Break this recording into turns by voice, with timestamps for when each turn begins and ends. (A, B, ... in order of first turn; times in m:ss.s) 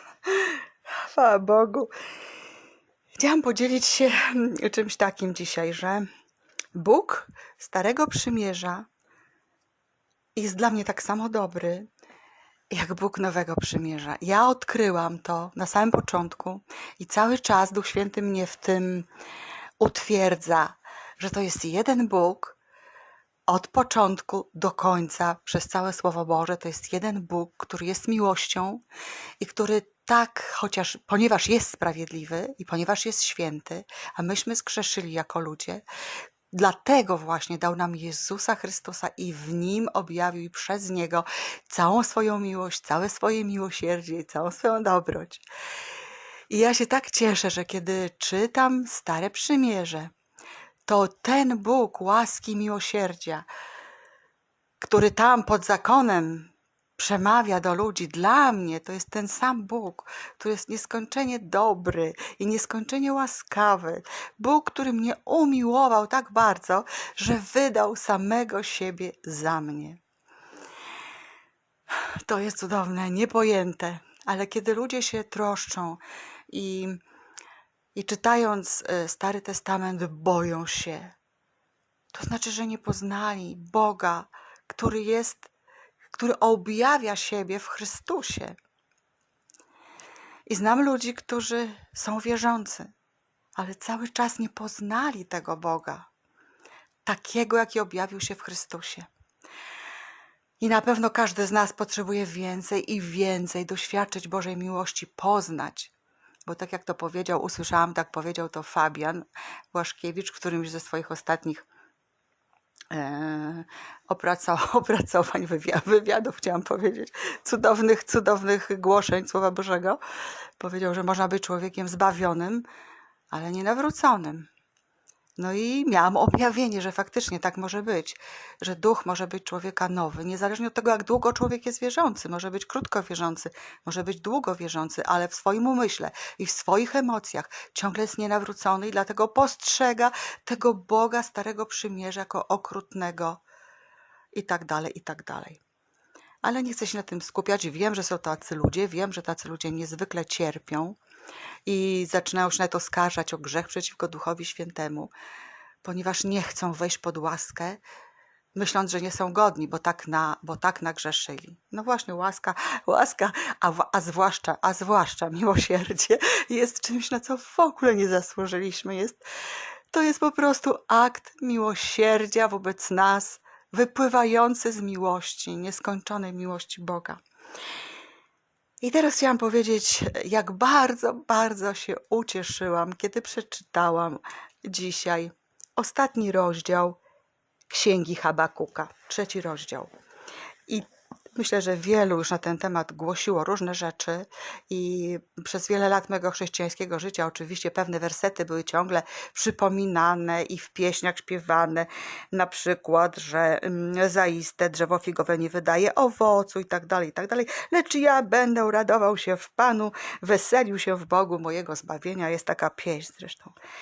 0:00.3-0:01.9 A
0:03.2-0:06.1 A
0:06.7-0:08.9 A
0:10.4-0:11.9 A
0:12.7-0:19.1 A
0:19.8-0:22.6 A
0:23.5-0:28.8 A
0:29.4-0:35.8 A
0:36.5-0:45.4 A
0:46.5-0:50.1 A
0:50.9-0:53.5 A
0:54.8-1:10.0 A
1:12.3-1:17.0 A
1:18.0-1:21.2 A
1:22.1-1:25.5 A
1:26.2-1:28.6 A
1:30.5-1:32.9 A
1:33.6-1:36.1 A
1:37.0-1:39.1 A
1:40.6-1:45.9 A
1:46.5-1:51.7 A
1:52.9-2:00.0 A
2:00.6-2:02.7 A
2:03.3-2:04.5 A
2:05.4-2:23.4 A
2:24.3-2:25.6 A
2:26.4-2:31.0 A
2:31.7-2:35.1 A
2:35.8-2:37.8 A
2:38.6-2:49.2 A
2:49.9-2:57.2 A
2:58.8-3:07.0 A
3:07.7-3:09.9 A
3:10.7-3:33.6 A